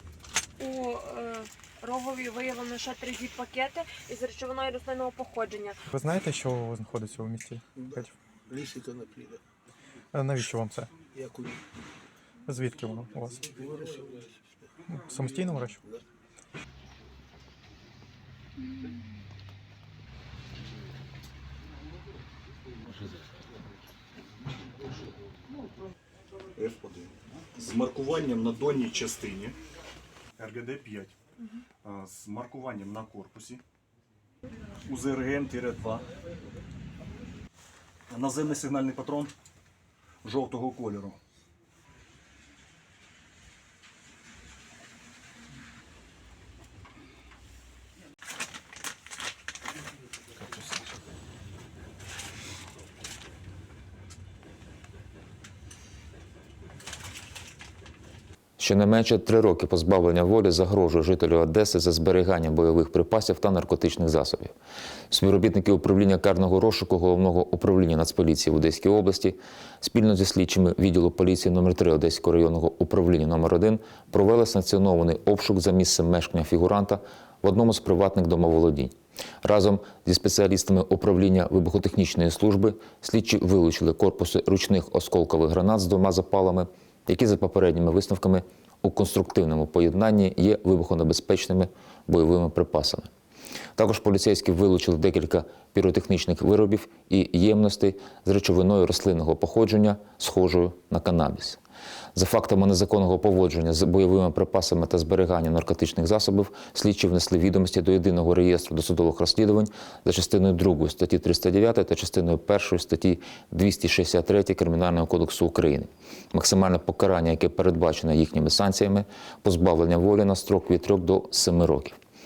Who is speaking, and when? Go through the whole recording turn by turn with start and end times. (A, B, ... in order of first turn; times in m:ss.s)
0:00.6-0:05.8 A
0:05.9-0:08.1 B
0:08.5-0:09.4 C
0:10.1-0:10.9 B
0:11.1-0:11.6 C
0:12.5-0:13.6 B
0:13.5-0:14.2 C
0:14.9-0:15.8 B
0:26.6-0:29.6 D
0:30.4-0:31.2 D
0:31.8-0:33.6 D
0:34.8-0:36.0 D
0:38.1-0:39.3 D
0:40.2-0:41.2 D
0:58.6-1:04.5 E
1:05.1-1:33.1 E
1:33.8-1:41.6 E
1:42.1-2:02.0 E